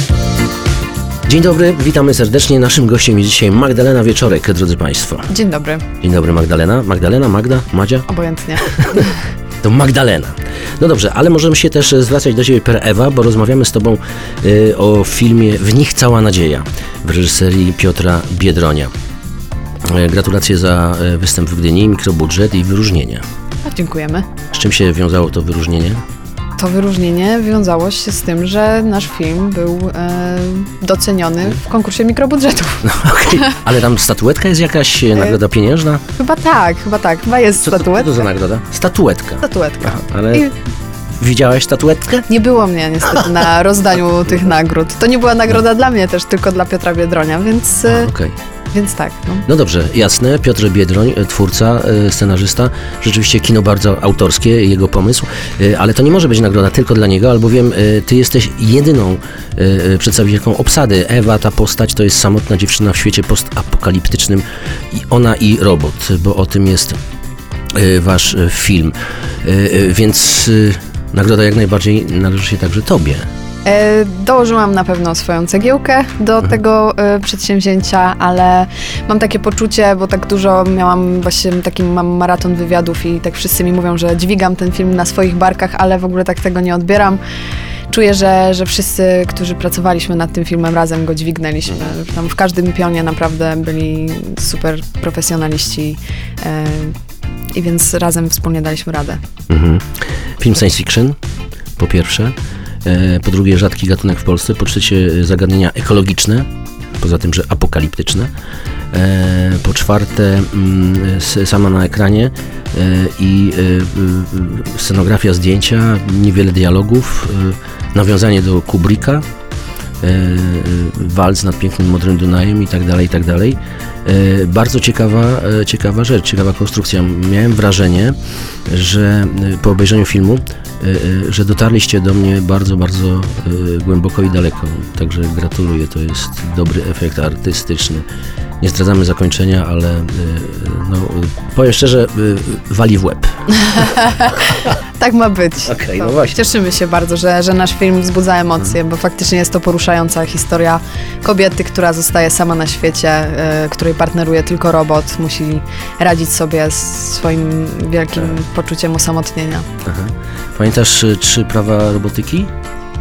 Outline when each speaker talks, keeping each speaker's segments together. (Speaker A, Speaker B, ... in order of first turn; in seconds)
Speaker A: 1.3-5.3, 6.0-8.1, 8.6-9.0, 9.6-18.9, 19.8-23.2, 24.5-26.0, 32.8-36.0, 37.6-40.5, 41.2-42.3, 47.9-48.3, 49.5-67.0, 67.7-73.2, 99.5-101.2, 101.8-106.5, 107.0-108.3, 108.9-119.2, 120.0-128.2, 128.7-138.0, 138.6-143.8, 145.6-146.5, 159.8-162.5
Speaker B: 5.3-5.8, 8.1-9.1, 23.6-24.2, 26.6-33.5, 36.2-38.2, 39.4-40.5, 42.3-48.1, 48.7-49.5, 73.6-87.2, 87.9-96.9, 97.5-99.2, 143.5-159.7